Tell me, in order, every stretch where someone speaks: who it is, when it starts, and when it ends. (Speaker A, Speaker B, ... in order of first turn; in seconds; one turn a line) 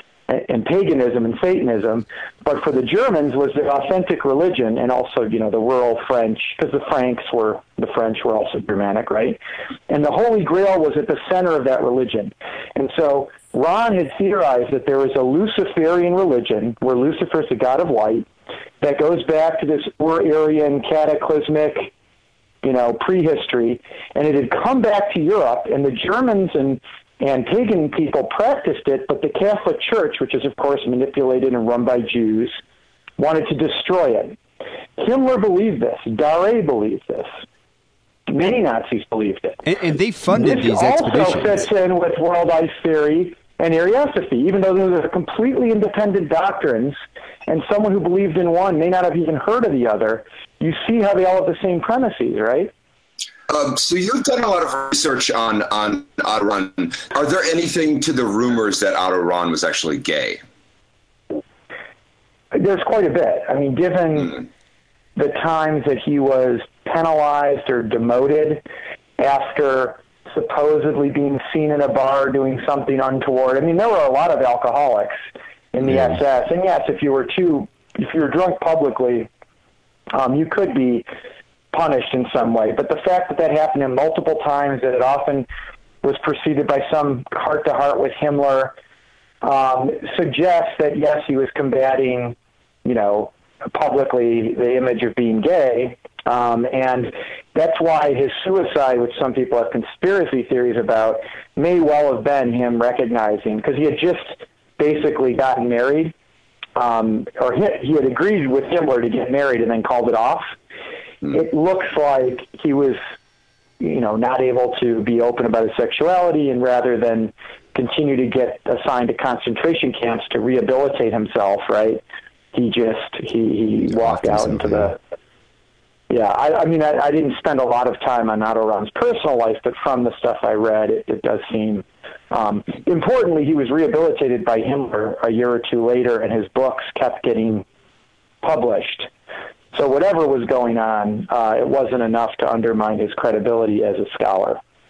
Speaker A: 0.3-18.3
Speaker A: 18.8-21.9
Speaker A: 22.6-32.6
Speaker A: 33.2-34.4
Speaker A: 35.0-37.3
Speaker A: 38.3-39.6
Speaker B: 39.7-41.6
Speaker A: 40.3-52.7
Speaker C: 53.5-60.4
Speaker A: 62.5-64.4
Speaker A: 65.2-68.6
Speaker A: 69.2-75.2
Speaker A: 75.7-79.3
Speaker A: 80.1-81.1
Speaker A: 81.7-85.5
Speaker A: 86.0-88.7
Speaker A: 89.4-106.1
Speaker A: 106.8-110.5
Speaker A: 111.3-113.0
Speaker A: 113.8-125.0
Speaker B: 123.9-125.0
Speaker A: 126.1-137.6
Speaker A: 138.4-139.1
Speaker A: 139.7-144.6